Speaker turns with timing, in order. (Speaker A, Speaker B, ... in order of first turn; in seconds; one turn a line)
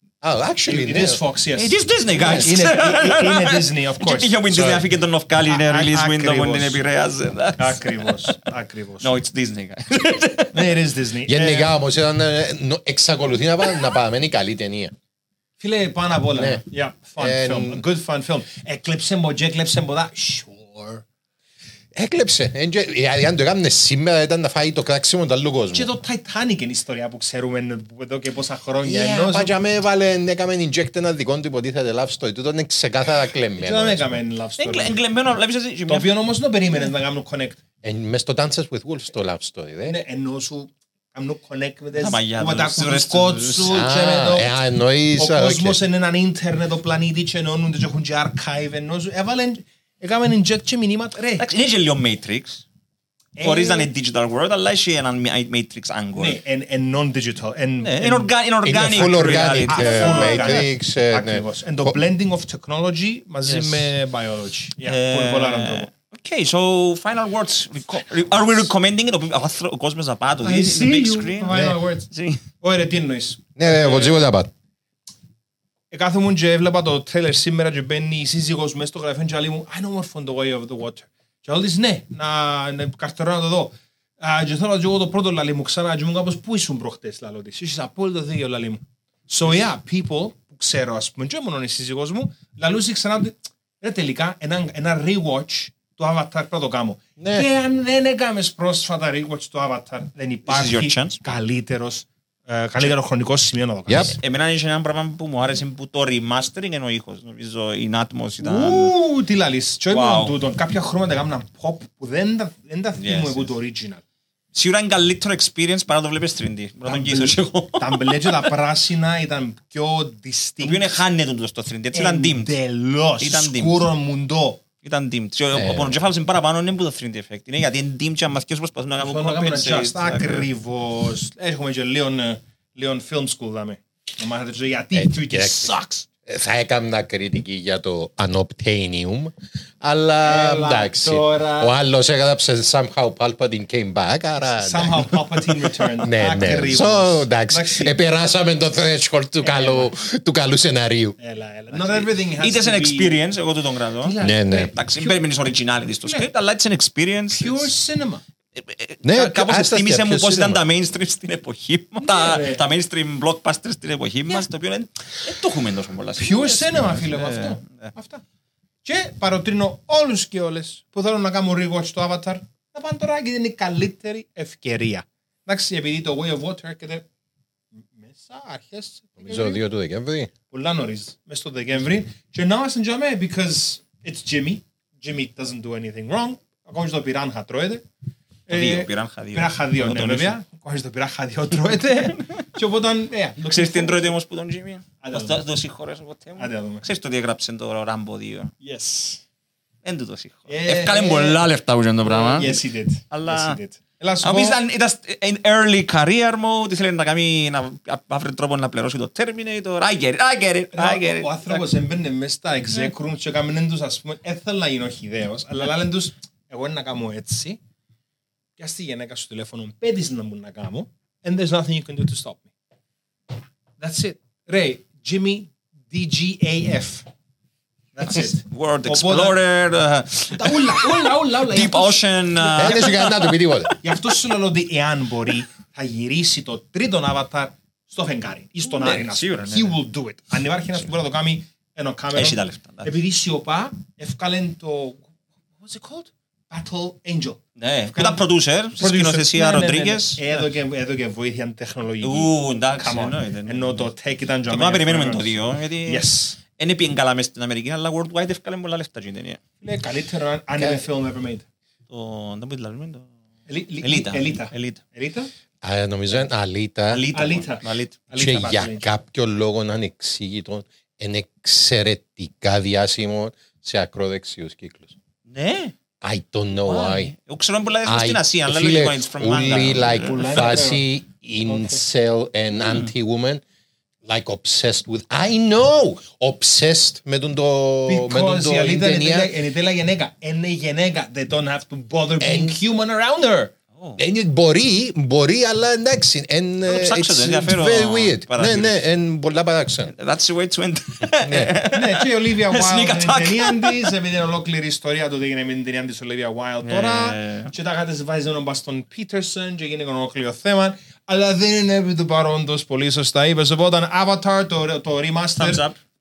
Speaker A: 0.2-1.2
Speaker B: 0.7-4.3
Speaker C: 1.5-8.4
Speaker A: 2.2-2.6
Speaker A: 4.5-4.8
Speaker B: 5.4-6.8
Speaker B: 7.6-9.1
Speaker C: 9.0-10.8
Speaker B: 10.5-11.8
Speaker A: 11.2-14.9
Speaker B: 15.6-21.1
Speaker A: 16.3-16.6
Speaker A: 17.2-17.8
Speaker A: 21.9-25.9
Speaker B: 25.7-29.5
Speaker A: 28.8-34.2
Speaker B: 33.6-35.0
Speaker C: 34.6-36.1
Speaker B: 35.9-37.6
Speaker A: 37.8-40.0
Speaker B: 39.8-44.5
Speaker C: 41.9-43.8
Speaker A: 43.6-45.8
Speaker B: 45.1-51.5
Speaker C: 51.4-52.6
Speaker B: 53.4-53.9
Speaker C: 53.4-56.4
Speaker B: 56.1-65.9
Speaker C: 57.8-60.6
Speaker A: 58.6-62.0
Speaker C: 63.4-63.9
Speaker C: 64.8-72.4
Speaker B: 70.4-72.1
Speaker A: 71.5-71.8
Speaker B: 72.6-74.2
Speaker A: 73.5-74.5
Speaker B: 75.9-104.2
Speaker A: 97.2-97.5
Speaker C: 100.5-101.2
Speaker A: 103.9-104.2
Speaker C: 103.9-108.9
Speaker B: 108.4-114.0
Speaker C: 109.9-110.3
Speaker C: 113.0-113.5
Speaker C: 114.5-118.5
Speaker B: 116.8-120.9
Speaker C: 120.6-122.5
Speaker B: 121.9-124.6
Speaker C: 123.2-123.9
Speaker C: 124.8-130.5
Speaker A: 125.5-126.0
Speaker B: 129.0-136.1
Speaker A: 134.9-135.7
Speaker A: 136.2-151.2
Speaker B: 140.2-141.8
Speaker B: 144.5-147.9
Speaker B: 149.4-149.9
Speaker B: 151.2-153.2
Speaker C: 151.7-157.7
Speaker B: 154.0-155.2
Speaker A: 154.2-154.7
Speaker B: 155.9-156.3
Speaker B: 157.3-158.2
Speaker C: 158.6-167.9
Speaker A: 159.0-160.6
Speaker B: 162.0-162.6
Speaker B: 166.2-168.2
Speaker B: 168.8-177.0
Speaker B: 177.8-179.6
Speaker A: 179.2-180.3
Speaker B: 180.5-187.8
Speaker B: 188.5-194.2
Speaker C: 188.5-190.3
Speaker C: 191.5-192.3
Speaker C: 193.4-198.5
Speaker B: 195.0-195.4
Speaker B: 196.4-196.8
Speaker B: 198.6-199.2
Speaker C: 199.8-203.6
Speaker B: 200.5-201.4
Speaker B: 202.0-204.6
Speaker C: 204.2-211.7
Speaker B: 210.7-217.6
Speaker B: 218.6-222.5
Speaker B: 223.8-227.1
Speaker B: 227.9-229.4
Speaker C: 228.2-233.8
Speaker B: 230.3-232.7
Speaker A: 232.5-233.7
Speaker B: 233.8-245.1
Speaker C: 238.6-239.8
Speaker C: 242.1-242.9
Speaker B: 245.6-256.4
Speaker C: 247.6-250.5
Speaker C: 252.0-253.9
Speaker C: 254.4-259.4
Speaker B: 259.6-261.4
Speaker C: 261.9-263.1
Speaker B: 263.5-265.3
Speaker C: 263.8-264.8
Speaker A: 265.6-267.1
Speaker C: 266.9-268.0
Speaker B: 267.1-268.9
Speaker A: 268.2-274.9
Speaker C: 275.3-275.7
Speaker A: 276.0-277.1
Speaker C: 276.6-280.6
Speaker A: 277.8-283.4
Speaker B: 279.9-280.8
Speaker B: 281.4-281.8
Speaker C: 282.6-282.9
Speaker A: 284.1-289.3
Speaker B: 287.9-293.5
Speaker A: 292.2-292.6
Speaker A: 294.0-299.9
Speaker C: 296.6-298.8
Speaker C: 299.9-303.9
Speaker A: 301.2-301.5
Speaker B: 301.7-315.6
Speaker C: 306.6-307.5
Speaker C: 315.4-315.8